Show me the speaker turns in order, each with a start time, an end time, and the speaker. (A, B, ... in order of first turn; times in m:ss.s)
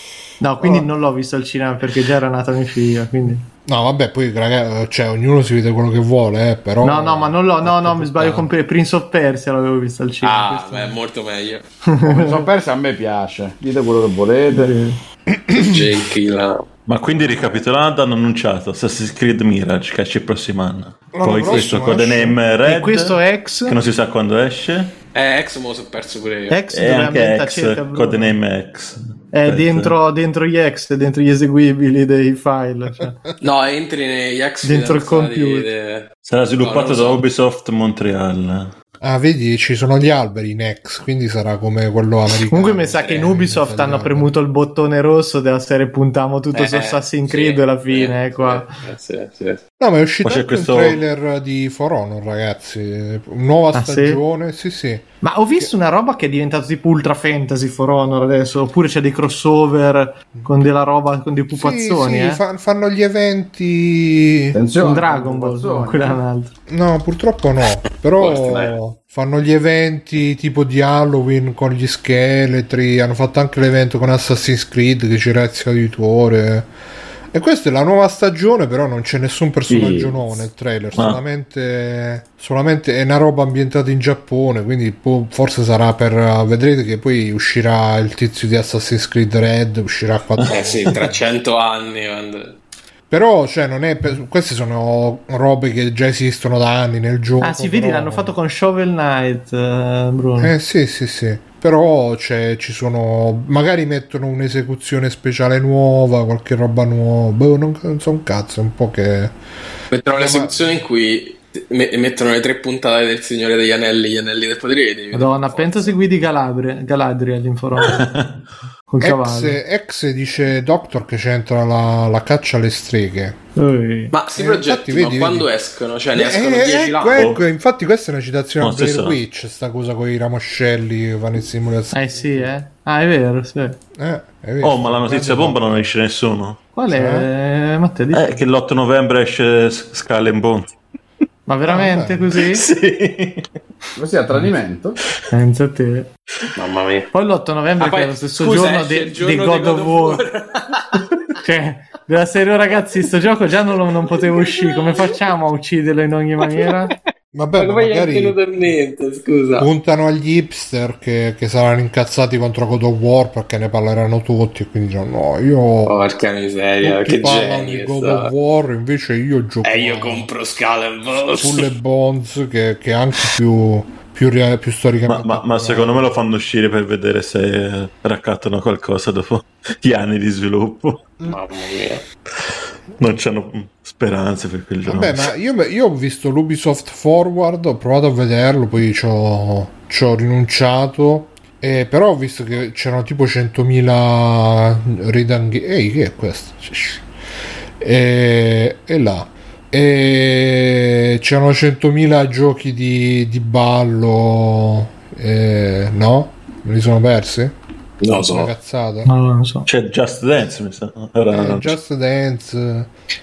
0:00.4-0:03.4 A
0:03.7-0:08.5 B
0:06.8-0:11.0 A
0:10.2-0:11.6 C
0:11.9-0:12.4 A
0:12.1-0:14.8 D
0:14.5-0:15.0 A
0:15.6-0:16.7 C
0:16.9-0:23.1 E
0:21.1-0:22.4 B
0:22.6-0:23.8 A
0:23.6-0:24.9 E
0:25.1-0:26.6 C
0:26.5-0:28.4 A
0:26.7-0:30.0 E
0:29.3-0:33.2 A
0:33.4-0:36.1 C
0:34.6-0:35.7 A
0:36.2-0:38.7 E
0:36.6-0:37.2 C
0:39.0-0:44.3 B
0:42.5-0:48.7 A
0:43.0-0:43.2 C
0:46.5-0:49.6 C
0:49.8-0:55.7 B
0:50.2-0:51.0 E
0:53.7-0:54.2 A
0:55.2-1:02.4 A
1:01.5-1:04.6 B
1:04.5-1:06.2 D
1:04.8-1:06.5 A
1:06.7-1:16.7 B
1:08.2-1:08.8 C
1:17.3-1:31.1 B
1:19.7-1:20.4 D
1:30.5-1:32.6 C
1:33.1-1:38.4 B
1:37.4-1:40.5 A
1:40.4-1:49.4 B
1:49.9-1:56.0 C
1:50.1-1:50.5 B
1:55.1-1:58.0 A
1:58.0-1:58.3 E
1:58.9-1:59.6 A
1:59.0-2:03.4 B
2:03.6-2:04.2 A
2:04.1-2:07.2 C
2:04.4-2:05.5 B
2:06.1-2:12.5 B
2:07.1-2:07.4 E
2:08.6-2:09.2 E
2:11.9-2:13.8 A
2:14.0-2:15.6 B
2:14.6-2:16.6 E
2:16.8-2:18.3 A
2:16.9-2:17.3 B
2:18.1-2:20.7 E
2:21.5-2:22.6 A
2:21.7-2:22.2 B
2:22.5-2:23.4 E
2:24.0-2:25.0 D
2:25.3-2:26.1 A
2:26.6-2:27.1 C
2:27.1-2:30.2 A
2:27.8-2:31.0 C
2:31.4-2:36.9 A
2:34.5-2:34.9 C
2:37.3-2:38.8 B
2:37.6-2:39.7 C
2:39.6-2:46.0 B
2:45.9-2:48.3 C
2:46.8-2:50.3 B
2:49.6-2:51.7 C
2:51.4-2:56.1 B
2:55.1-3:01.1 E
3:01.3-3:02.0 C
3:02.4-3:05.3 E
3:04.8-3:17.0 B
3:17.8-3:29.1 B
3:28.0-3:28.5 C
3:29.1-3:29.7 A
3:29.7-3:31.8 E
3:31.3-3:32.9 B